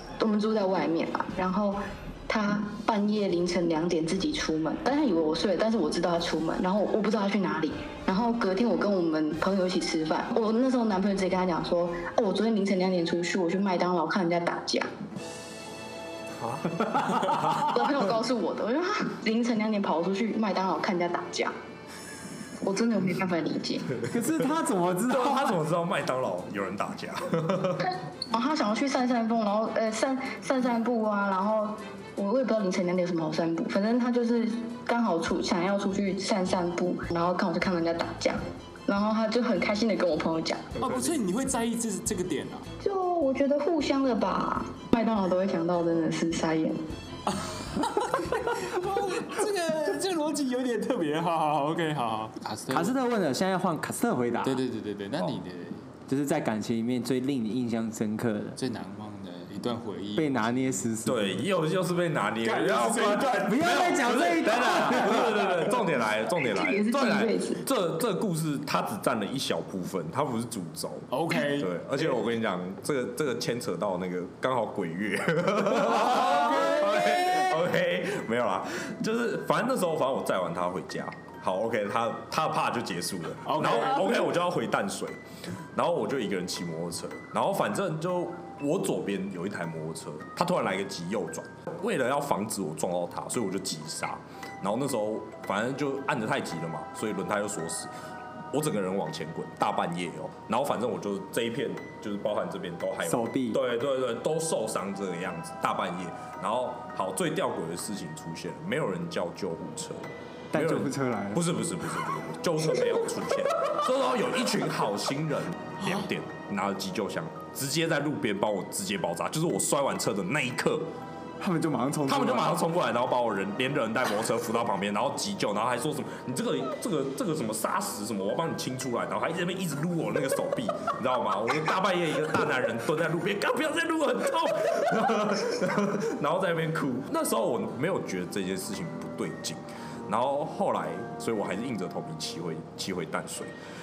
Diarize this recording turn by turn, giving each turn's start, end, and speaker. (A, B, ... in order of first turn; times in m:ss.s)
0:00.2-0:14.9 A
0:16.4-0:17.6 B
0:17.4-0:21.5 A
0:22.6-0:24.0 A
0:24.0-0:25.6 C
0:25.1-0:27.9 B
0:28.3-0:40.6 A
0:40.8-0:42.7 D
0:42.8-0:46.8 A
0:47.3-0:53.0 D
0:52.7-0:54.6 C
0:54.4-0:55.9 D
0:56.1-0:58.6 C
0:58.6-1:00.8 D
1:00.2-1:01.4 C
1:01.0-1:25.2 B
1:02.4-1:04.1 D
1:03.4-1:05.5 C
1:06.4-1:07.6 A
1:11.1-1:12.0 D
1:15.8-1:17.4 D
1:23.4-1:24.1 D
1:25.7-1:37.9 B
1:38.5-2:00.9 B
1:43.0-1:43.6 C
1:50.5-1:51.4 C
2:01.4-2:02.5 C
2:02.0-2:23.5 B